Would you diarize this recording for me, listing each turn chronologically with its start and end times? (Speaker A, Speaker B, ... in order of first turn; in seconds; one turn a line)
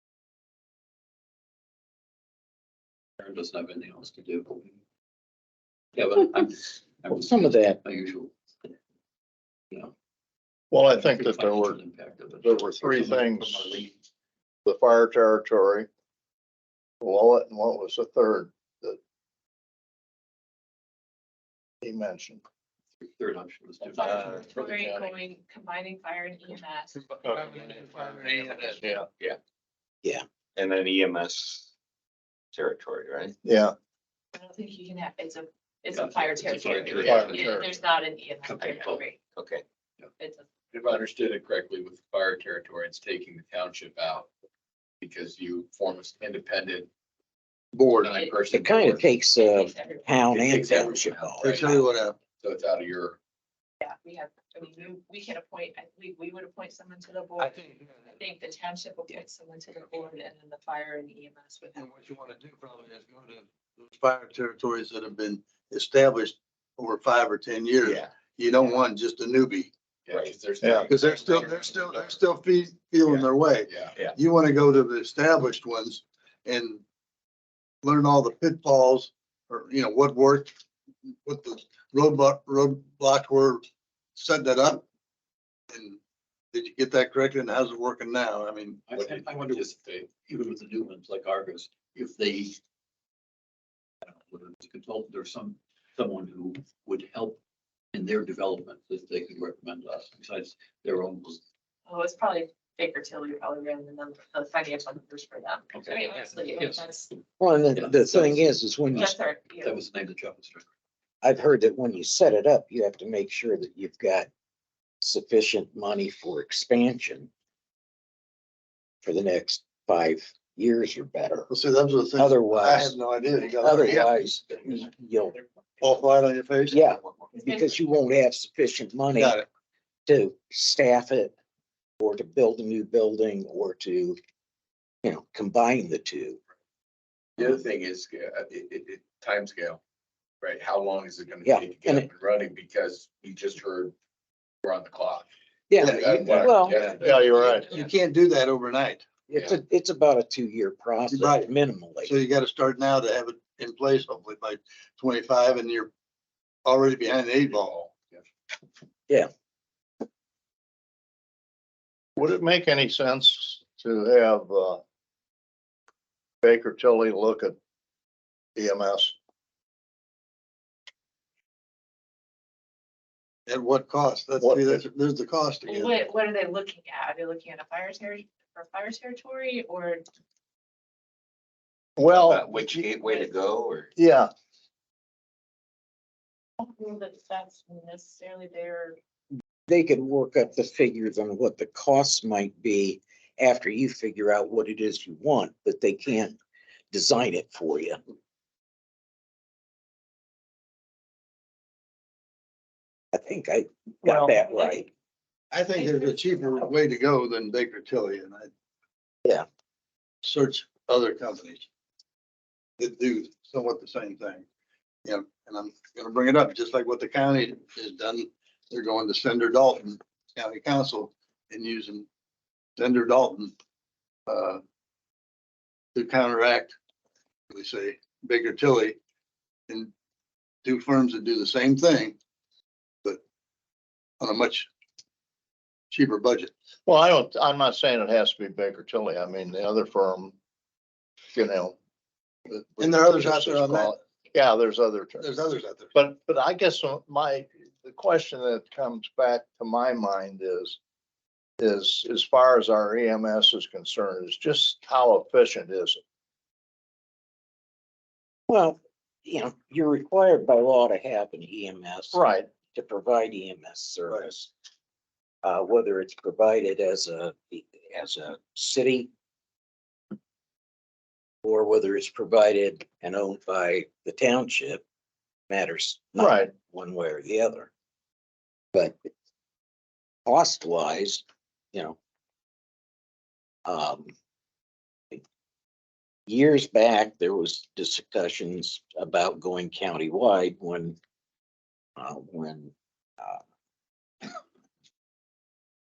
Speaker A: 3.2-4.7
Speaker A: 6.0-8.7
Speaker B: 7.1-7.8
Speaker C: 10.7-11.8
Speaker A: 10.9-14.0
Speaker C: 12.4-13.8
Speaker C: 14.7-15.9
Speaker C: 17.0-19.0
Speaker C: 21.8-22.4
Speaker A: 23.0-24.5
Speaker D: 24.0-27.1
Speaker C: 24.5-25.1
Speaker C: 27.2-27.6
Speaker E: 27.4-28.8
Speaker C: 28.8-29.1
Speaker F: 30.6-31.7
Speaker F: 32.5-33.4
Speaker C: 33.4-33.7
Speaker D: 34.3-39.2
Speaker A: 35.9-37.5
Speaker C: 37.0-37.7
Speaker A: 38.4-39.0
Speaker F: 39.3-39.6
Speaker D: 40.2-40.5
Speaker G: 40.7-44.3
Speaker G: 45.0-46.9
Speaker E: 47.7-48.1
Speaker G: 48.0-49.1
Speaker D: 48.1-48.5
Speaker B: 48.5-51.6
Speaker D: 49.1-50.3
Speaker G: 50.3-53.2
Speaker E: 51.4-52.2
Speaker D: 53.8-61.9
Speaker E: 57.4-57.6
Speaker E: 61.8-69.7
Speaker F: 67.8-68.1
Speaker G: 70.1-72.0
Speaker C: 70.6-70.9
Speaker E: 70.9-76.8
Speaker G: 73.7-74.0
Speaker E: 77.8-80.5
Speaker E: 81.2-83.6
Speaker E: 84.2-84.8
Speaker E: 85.7-86.0
Speaker E: 86.5-88.8
Speaker A: 88.9-92.6
Speaker G: 88.9-89.7
Speaker A: 94.0-97.4
Speaker A: 97.9-101.4
Speaker D: 101.9-107.2
Speaker A: 105.7-106.9
Speaker B: 107.4-109.2
Speaker A: 107.8-110.7
Speaker D: 109.0-109.8
Speaker B: 111.2-114.3
Speaker B: 115.0-117.3
Speaker B: 119.0-121.5
Speaker E: 121.5-124.2
Speaker B: 122.2-123.0
Speaker B: 123.6-125.4
Speaker E: 125.8-127.2
Speaker B: 126.7-129.4
Speaker D: 127.3-127.8
Speaker E: 129.1-129.5
Speaker B: 130.1-131.3
Speaker B: 132.0-134.2
Speaker B: 135.0-136.4
Speaker G: 137.4-139.8
Speaker G: 140.4-143.9
Speaker B: 141.4-142.1
Speaker G: 144.6-145.3
Speaker B: 145.7-146.8
Speaker E: 145.8-147.1
Speaker G: 145.8-147.7
Speaker C: 146.3-147.8
Speaker E: 147.7-149.1
Speaker B: 149.3-152.1
Speaker G: 149.3-149.6
Speaker E: 151.1-151.5
Speaker E: 152.0-155.9
Speaker E: 156.7-157.9
Speaker C: 162.2-164.8
Speaker C: 166.4-167.6
Speaker C: 168.6-169.1
Speaker E: 173.5-176.0
Speaker C: 174.4-174.8
Speaker D: 175.6-180.1
Speaker C: 182.0-182.9
Speaker F: 182.1-183.9
Speaker C: 184.0-184.3
Speaker D: 186.6-189.0
Speaker B: 189.7-196.4
Speaker B: 196.9-198.0
Speaker B: 203.1-204.9
Speaker C: 204.1-204.3
Speaker E: 205.5-208.5
Speaker E: 210.2-211.7
Speaker E: 212.8-214.4
Speaker E: 215.1-222.1
Speaker E: 222.8-223.5
Speaker E: 224.3-224.6
Speaker E: 225.9-226.8
Speaker E: 227.5-229.0
Speaker E: 230.6-232.2
Speaker E: 234.2-234.7
Speaker E: 235.9-236.5
Speaker C: 236.9-240.3
Speaker C: 241.3-241.8
Speaker E: 242.5-244.0
Speaker C: 242.6-245.3
Speaker E: 245.2-245.9
Speaker C: 245.9-250.8
Speaker C: 251.6-256.0
Speaker B: 258.5-264.5
Speaker C: 262.1-262.5
Speaker B: 265.4-269.1
Speaker B: 271.4-274.8
Speaker B: 275.5-277.7
Speaker C: 276.2-276.5
Speaker B: 280.3-282.0
Speaker B: 283.7-284.1
Speaker B: 286.3-291.0
Speaker B: 292.0-293.4